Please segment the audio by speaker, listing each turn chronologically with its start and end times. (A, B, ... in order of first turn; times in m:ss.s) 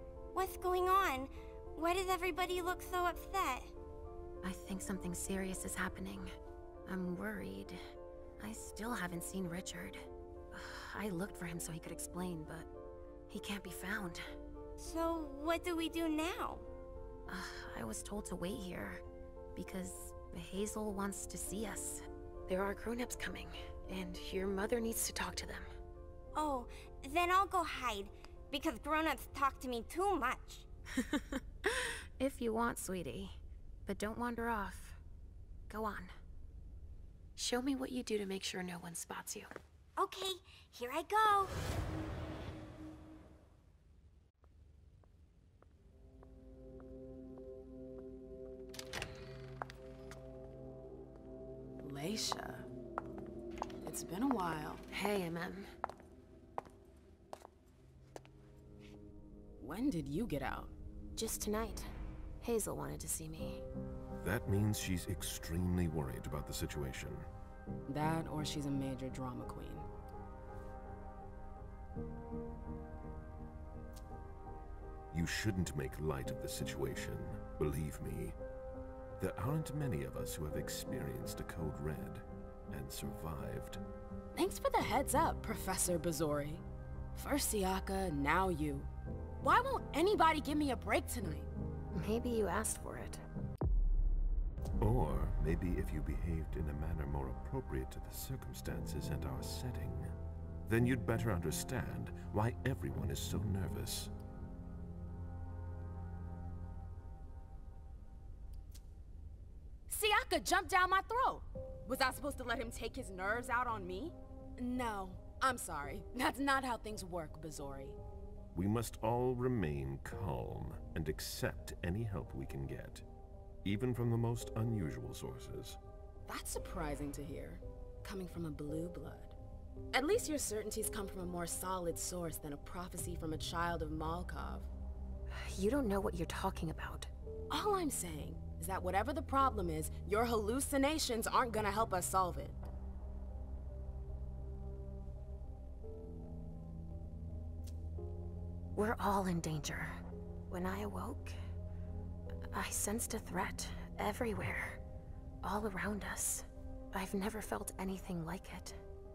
0:00.3-0:03.7 A
0:04.4-0:06.3 B
0:06.9-0:07.8 B
0:08.4-0:12.7 B
0:13.3-0:14.2 B
0:14.8-0:16.7 A
0:17.3-0:19.0 B
0:19.6-0:25.7 B
0:26.4-0:30.7 A
0:31.7-0:35.0 B
0:35.7-0:36.1 B
0:37.4-0:39.5 B
0:40.0-0:41.5 A
0:51.8-0:52.7 C
0:53.8-0:54.8 C
0:54.9-0:55.7 B
0:59.6-1:00.7 C
1:01.2-1:03.6 B
1:04.2-1:07.3 D
1:07.9-1:09.9 C
1:15.1-1:18.4 D
1:19.2-1:23.8 D
1:24.4-1:26.6 C
1:27.1-1:28.9 C
1:29.4-1:31.5 C
1:31.9-1:33.2 B
1:34.8-1:40.1 D
1:40.7-1:44.1 D
1:49.9-1:58.0 C
1:58.5-2:03.0 D
2:03.6-2:05.8 D
2:06.3-2:09.4 C
2:09.9-2:14.7 C
2:15.3-2:17.1 B
2:17.5-2:22.6 C
2:28.8-2:30.0 B
2:30.5-2:31.4 B
2:32.5-2:34.8 B
2:35.4-2:38.8 B